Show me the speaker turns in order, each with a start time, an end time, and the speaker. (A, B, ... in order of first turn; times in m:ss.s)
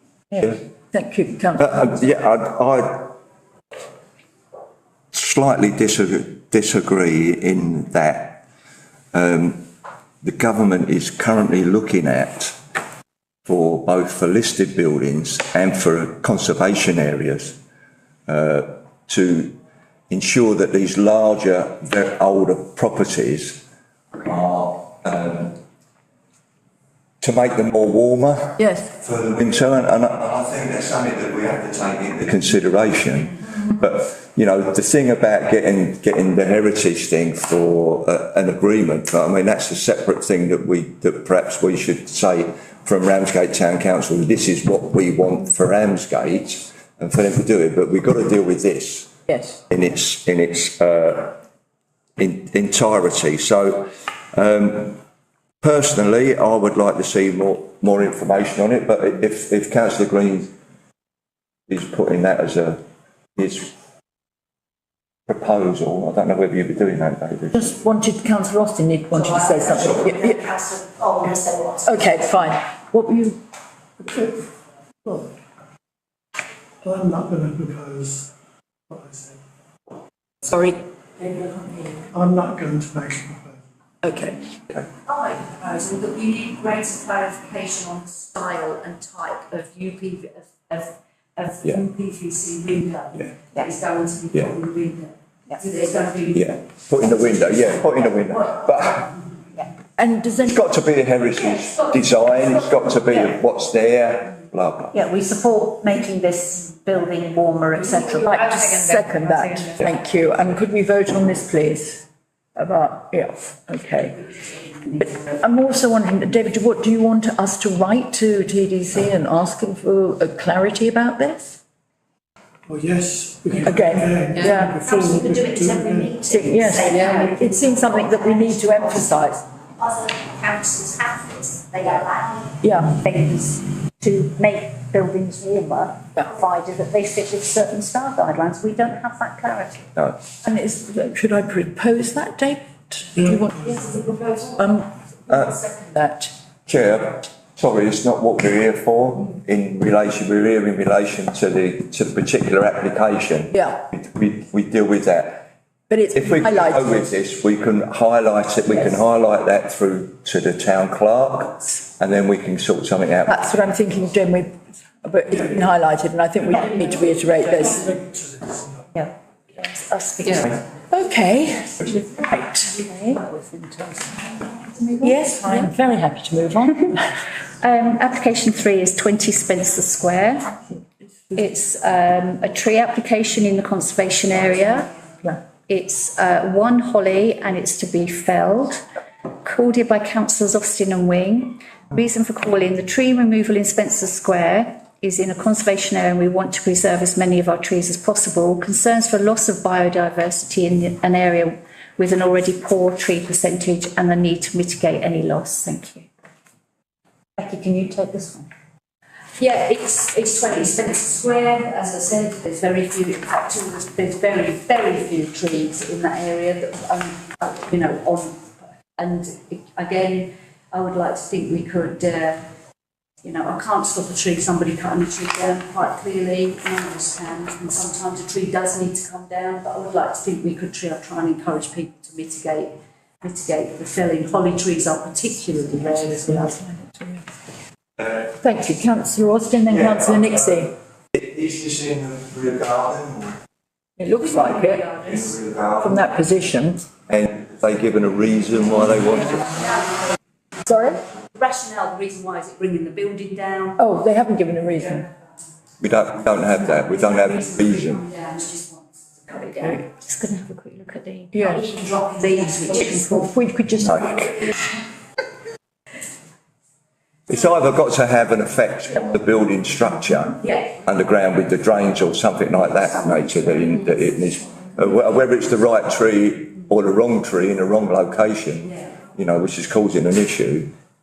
0:00.3-0:01.8 A
0:01.6-0:03.2 B
0:05.1-0:08.4 B
0:09.1-0:09.7 B
0:10.2-0:12.6 B
0:13.4-0:17.6 B
0:18.3-0:19.6 B
0:20.1-0:23.6 B
0:24.2-0:25.6 B
0:27.2-0:49.1 B
0:28.6-0:28.9 A
0:49.3-0:49.6 A
0:49.7-0:51.4 B
0:52.2-0:55.0 B
0:55.6-1:00.5 B
1:01.7-1:02.8 B
1:03.4-1:03.7 B
1:05.3-1:07.6 B
1:07.5-1:10.4 A
1:09.2-1:11.8 C
1:11.8-1:13.4 A
1:16.8-1:18.3 D
1:18.9-1:19.4 D
1:20.4-1:22.0 A
1:22.1-1:23.6 D
1:24.0-1:24.5 A
1:25.0-1:36.6 E
1:36.3-1:39.1 B
1:40.0-1:40.6 A
1:40.4-1:45.0 B
1:44.9-1:48.4 C
1:48.2-1:52.0 A
1:52.6-1:54.2 A
1:54.8-2:01.6 A
2:02.7-2:06.3 D
2:03.6-2:04.8 A
2:04.6-2:08.8 C
2:06.2-2:09.4 A
2:09.8-2:19.8 C
2:12.6-2:13.0 A
2:18.8-2:19.2 E
2:20.4-2:23.9 A
2:24.5-2:24.9 A
2:25.3-2:25.6 B
2:25.5-2:26.3 A
2:26.7-2:35.5 B
2:33.5-2:33.8 A
2:35.9-2:37.1 A
2:36.1-2:43.3 B
2:43.2-2:47.9 A
2:47.6-2:48.6 D
2:49.6-2:50.6 F
2:50.9-2:52.9 A
2:54.3-2:55.1 F
2:55.0-2:57.1 A
2:57.6-3:00.5 F
3:01.3-3:04.9 F
3:05.6-3:08.8 F
3:09.4-3:26.1 F
3:27.4-3:28.5 C
3:29.4-3:42.5 E
3:43.2-3:56.6 E
3:55.9-3:57.2 A
3:58.4-4:00.7 A
4:01.1-4:03.4 B
4:04.0-4:04.8 A
4:04.1-4:05.4 E
4:05.1-4:06.0 B
4:05.8-4:06.8 A
4:07.1-4:09.6 B
4:10.6-4:11.0 A
4:11.3-4:13.8 E
4:13.8-4:15.1 A
4:15.8-4:18.0 B
4:16.8-4:19.8 E
4:19.6-4:21.3 F
4:21.3-4:21.7 A
4:21.4-4:23.3 E
4:22.8-4:24.3 A
4:23.8-4:24.4 B
4:27.3-4:40.7 B